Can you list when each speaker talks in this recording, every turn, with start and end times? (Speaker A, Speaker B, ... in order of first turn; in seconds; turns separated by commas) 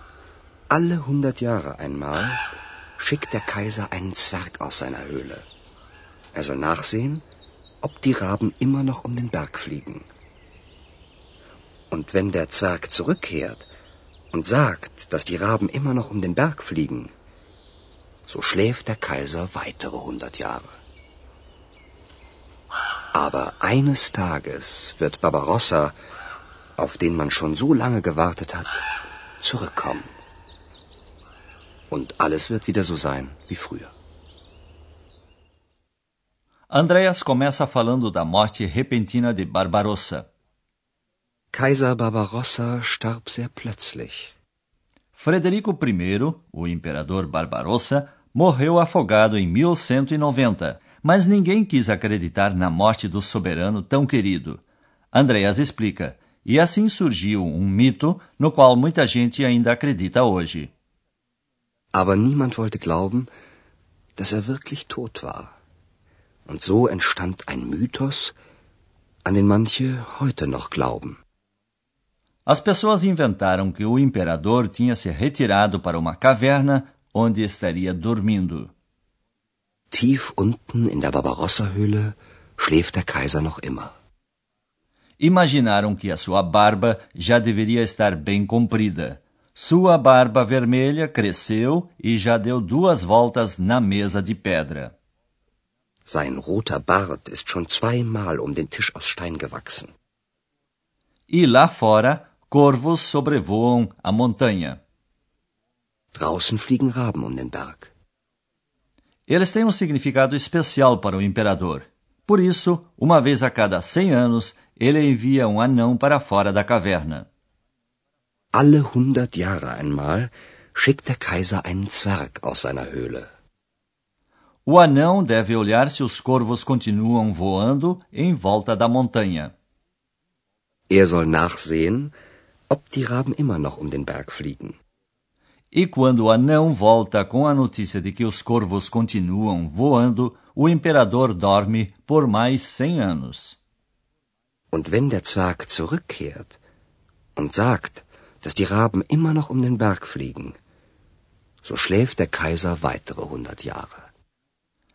Speaker A: 0.7-2.4, Speaker A: 3.0-5.5, Speaker A: 6.3-7.2, Speaker A: 7.8-10.1, Speaker A: 11.9-13.7, Speaker A: 14.3-17.1, Speaker A: 18.3-20.8, Speaker A: 23.1-26.0, Speaker A: 26.8-28.8, Speaker A: 29.4-30.1, Speaker A: 31.9-33.9, Speaker B: 36.7-40.3, Speaker A: 41.5-44.3, Speaker B: 45.1-60.7, Speaker A: 61.9-63.3, Speaker A: 64.2-65.5, Speaker A: 66.5-68.4, Speaker A: 69.2-71.2, Speaker B: 72.5-78.7, Speaker A: 79.9-84.0, Speaker B: 85.2-95.0, Speaker A: 96.1-99.9, Speaker B: 101.3-104.8, Speaker A: 106.2-107.9, Speaker B: 109.3-117.3, Speaker A: 118.5-123.3, Speaker B: 124.7-129.5, Speaker A: 130.9-132.2, Speaker A: 132.7-134.8, Speaker B: 135.7-143.6, Speaker A: 144.7-146.6, Speaker A: 147.4-150.6, Speaker A: 151.6-154.1